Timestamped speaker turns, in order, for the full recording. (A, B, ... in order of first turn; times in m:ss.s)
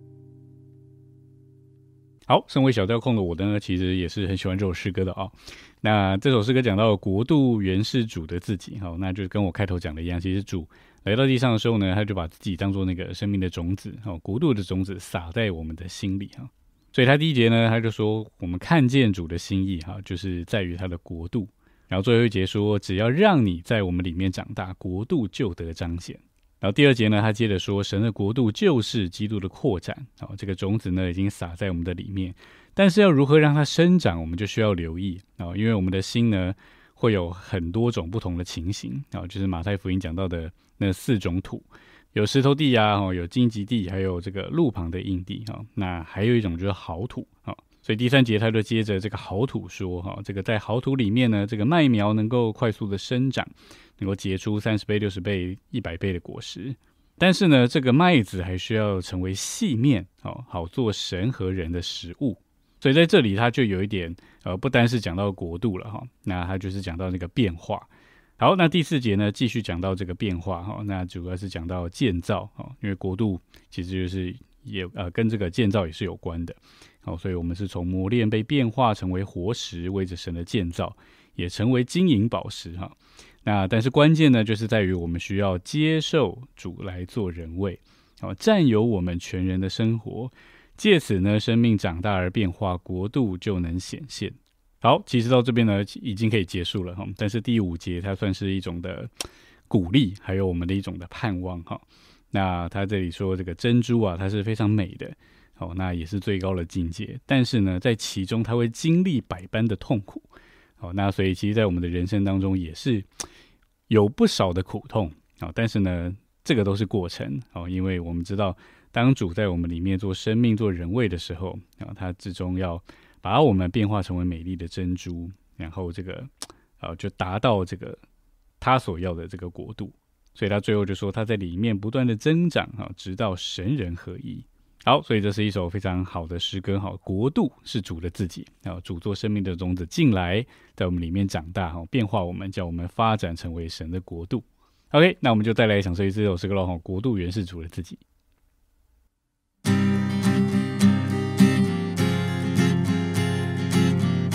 0:02.3-1:39.1 A
1:39.7-1:50.3 A
1:50.8-1:53.1 A
1:53.9-2:08.0 A
2:08.6-2:28.0 A